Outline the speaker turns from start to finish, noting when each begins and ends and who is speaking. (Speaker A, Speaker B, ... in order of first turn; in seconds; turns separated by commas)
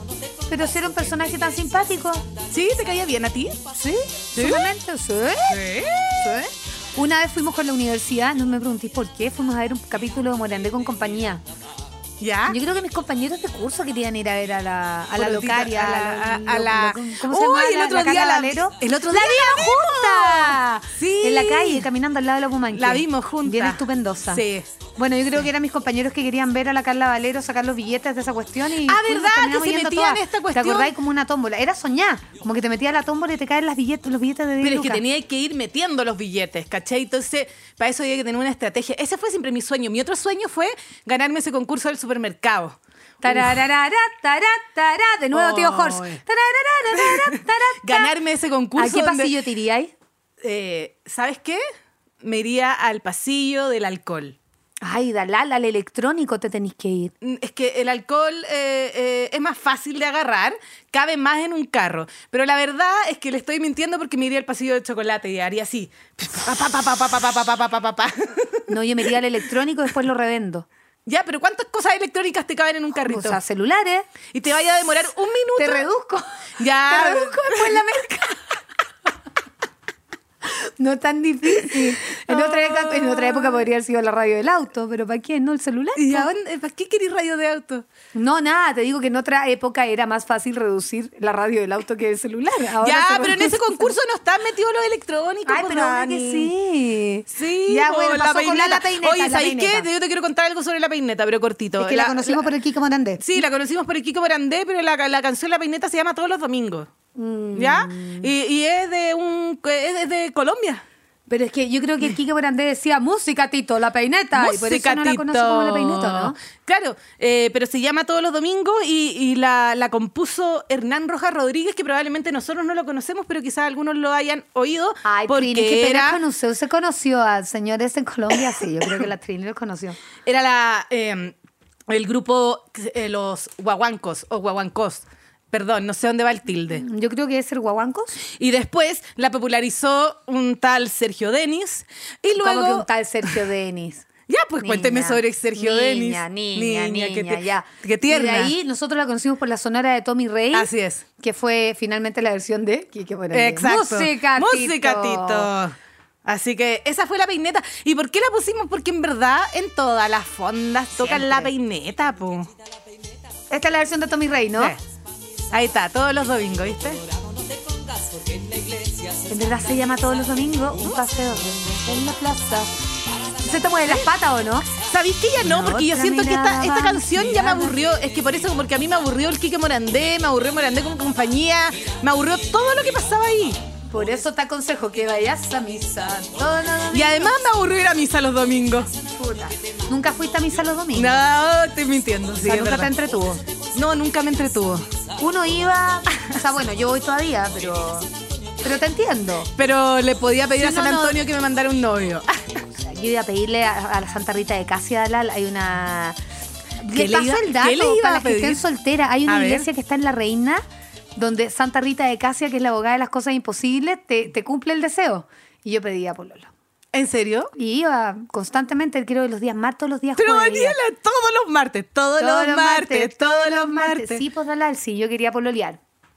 Speaker A: 0.5-2.3, Speaker B: 2.5-4.7, Speaker A: 3.8-5.7, Speaker B: 5.5-6.5, Speaker A: 7.0-11.4, Speaker B: 12.2-12.6, Speaker A: 12.5-24.4, Speaker B: 15.2-21.9, Speaker B: 22.7-24.7, Speaker A: 25.0-35.0, Speaker B: 28.9-30.9, Speaker B: 34.6-43.6, Speaker A: 43.2-48.1, Speaker B: 45.3-46.2, Speaker B: 46.9-49.3, Speaker A: 48.8-49.9, Speaker B: 50.4-51.6, Speaker B: 52.2-54.4, Speaker A: 54.8-57.1, Speaker B: 57.2-68.8, Speaker A: 68.7-70.7, Speaker B: 71.1-73.4, Speaker A: 73.1-74.1, Speaker B: 74.3-75.9, Speaker A: 75.6-78.6, Speaker B: 76.6-77.8, Speaker A: 80.4-86.3, Speaker B: 81.6-83.7, Speaker B: 86.0-87.9, Speaker A: 88.1-93.9, Speaker B: 92.8-96.5, Speaker A: 95.5-99.9, Speaker B: 97.3-102.5, Speaker A: 101.8-103.3, Speaker B: 103.2-106.9, Speaker A: 107.2-108.3, Speaker B: 107.5-110.8, Speaker A: 111.3-116.4, Speaker B: 114.3-126.2, Speaker A: 125.0-130.0, Speaker B: 130.2-131.4, Speaker B: 131.9-136.8, Speaker A: 136.7-138.2, Speaker B: 138.2-142.9, Speaker A: 142.4-144.1, Speaker B: 144.3-148.5, Speaker A: 144.6-155.5, Speaker B: 150.5-151.0, Speaker B: 153.3-162.5, Speaker A: 161.0-161.5, Speaker A: 163.5-164.8, Speaker B: 165.5-167.0, Speaker A: 169.3-172.7, Speaker A: 173.3-174.7, Speaker B: 174.8-183.6, Speaker A: 175.4-177.8, Speaker A: 183.8-187.5, Speaker B: 186.9-188.9, Speaker A: 189.1-191.3, Speaker B: 190.9-192.9, Speaker A: 192.4-193.4, Speaker B: 193.7-194.9, Speaker A: 195.2-198.1, Speaker A: 198.6-199.5, Speaker B: 199.6-202.6, Speaker A: 200.5-201.2, Speaker A: 202.8-206.2, Speaker A: 206.8-210.6, Speaker B: 206.9-208.6, Speaker B: 209.3-209.7, Speaker A: 211.2-216.5, Speaker B: 216.9-217.5, Speaker A: 217.5-220.8, Speaker B: 220.2-224.2, Speaker A: 222.2-225.8